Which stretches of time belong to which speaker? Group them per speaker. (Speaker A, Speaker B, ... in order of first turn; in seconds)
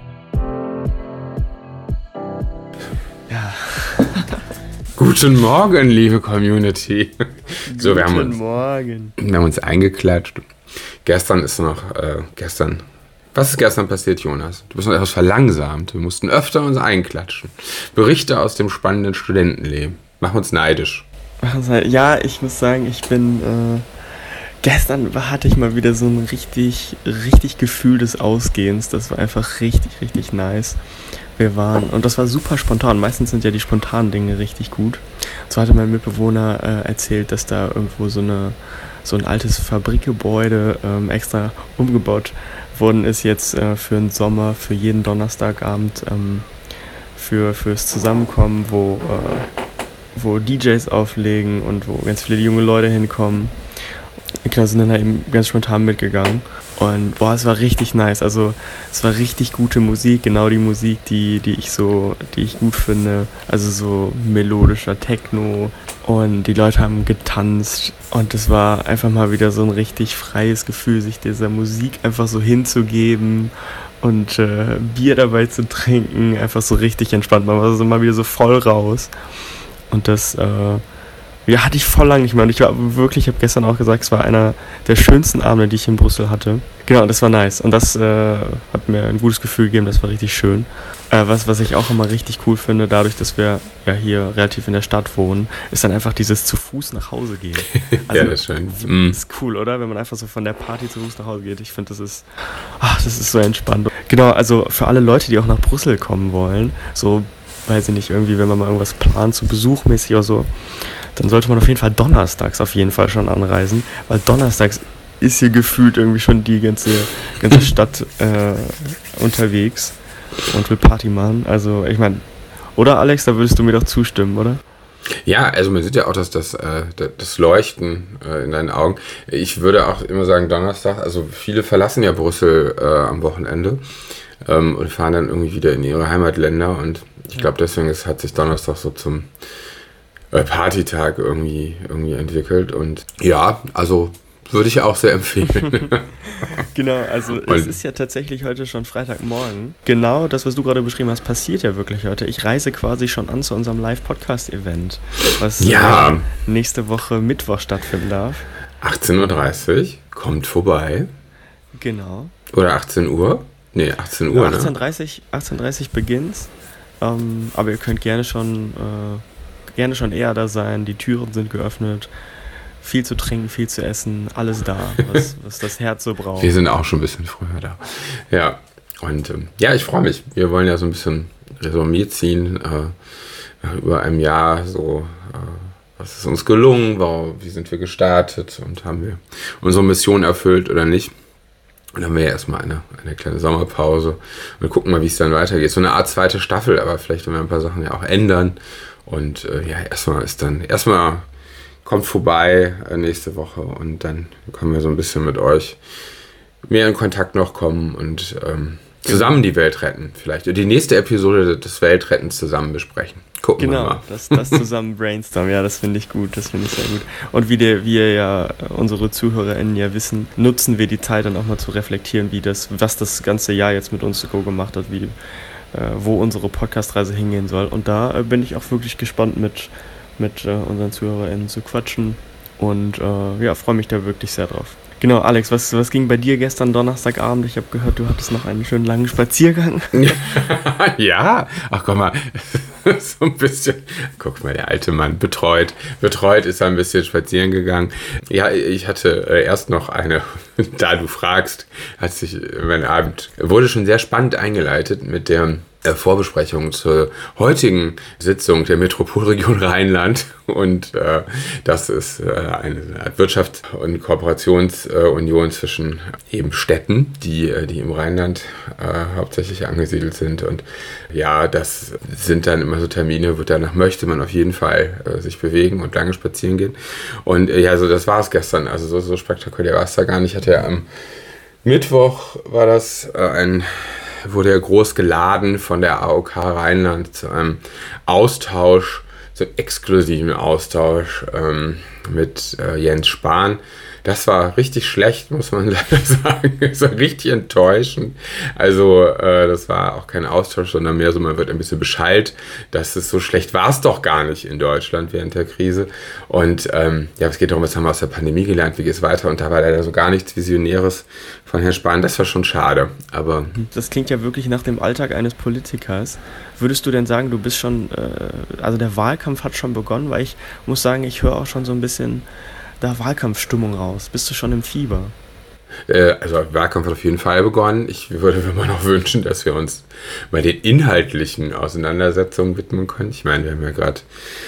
Speaker A: 3.3-4.4, 7.7-9.1, 21.4-23.9, 24.6-30.8, 31.4-46.5, 47.1-49.5, 50.1-53.5, 54.4-79.1, 79.9-80.8, 81.5-124.6, 146.3-158.4, 161.7-162.3, 164.3-169.2, 169.7-172.1, 172.8-176.5, 209.1-209.4, 213.6-225.1, 225.7-240.3, 313.6-322.3, 322.8-325.1
Speaker B: 5.0-8.3, 9.2-10.4, 11.0-12.8, 13.3-21.1, 98.1-99.2, 125.2-133.8, 134.4-139.3, 140.3-146.1, 147.4-147.7, 155.6-156.3, 158.8-161.1, 162.5-164.7, 176.4-182.9, 183.6-191.1, 191.9-201.2, 201.8-205.8, 206.7-214.6, 239.9-280.9, 281.6-313.5, 325.9-334.1